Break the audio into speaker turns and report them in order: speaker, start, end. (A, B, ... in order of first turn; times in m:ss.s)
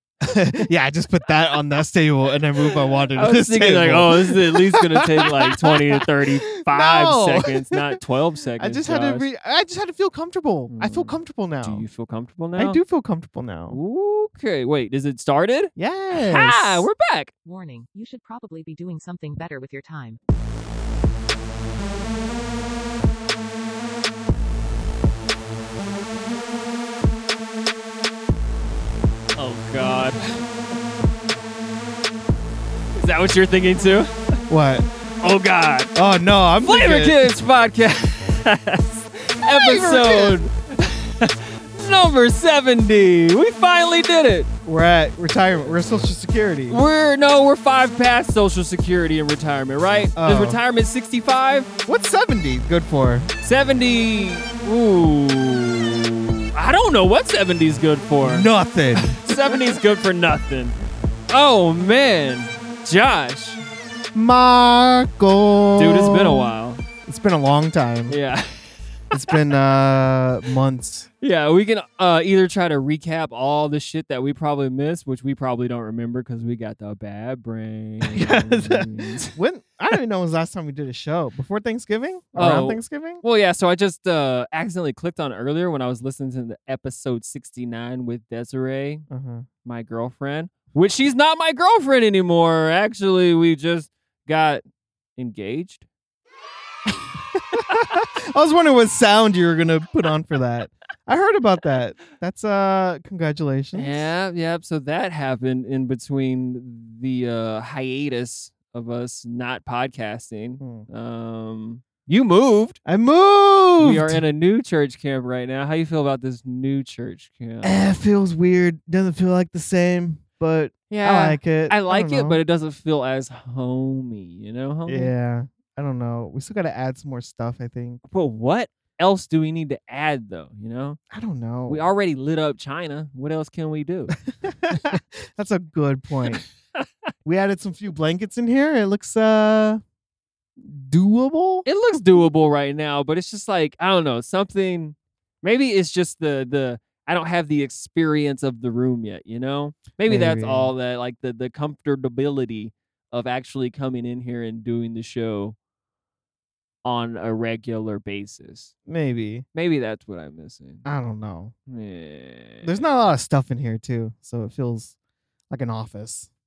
0:00.2-0:08.0 A
0:03.1-0:09.3 B
0:08.6-0:11.8 A
0:10.7-0:12.8 B
0:12.6-0:13.8 A
0:13.7-0:17.3 B
0:15.8-0:16.9 A
0:17.4-0:20.2 C
0:29.4-0:30.4 B
0:32.9-0:34.3 B
0:34.5-0:34.9 A
0:35.2-0:35.9 B
0:35.9-0:37.3 A
0:36.6-0:44.5 B
0:39.4-0:40.4 A
0:44.6-0:46.8 A
0:46.7-0:51.7 B
0:50.2-0:50.6 A
0:51.8-0:53.3 A
0:53.4-0:58.5 B
0:58.2-0:59.2 A
0:59.1-1:00.8 B
1:01.3-1:03.6 B
1:04.1-1:06.5 A
1:05.8-1:06.8 B
1:07.0-1:08.2 A
1:08.1-1:08.7 B
1:09.1-1:11.1 A
1:11.2-1:19.4 B
1:18.0-1:23.2 A
1:22.4-1:29.0 B
1:29.1-1:29.4 A
1:29.6-1:34.6 B
1:35.2-1:35.8 B
1:37.3-1:44.1 A
1:43.7-1:52.8 B
1:50.6-1:50.9 A
1:52.8-1:54.2 A
1:53.8-1:57.8 B
1:57.6-2:02.4 A
2:00.9-2:05.1 B
2:04.9-2:08.0 A
2:08.1-2:11.0 B
2:11.1-2:11.8 A
2:11.7-2:14.2 B
2:14.4-2:16.4 A
2:17.2-2:19.8 A
2:20.6-2:21.6 A
2:21.6-2:35.6 B
2:30.0-2:30.7 A
2:36.8-2:38.7 B
2:38.9-2:39.4 A
2:39.5-2:40.8 B
2:40.8-2:41.5 A
2:41.7-2:42.8 B
2:42.6-2:44.9 A
2:45.5-2:46.3 A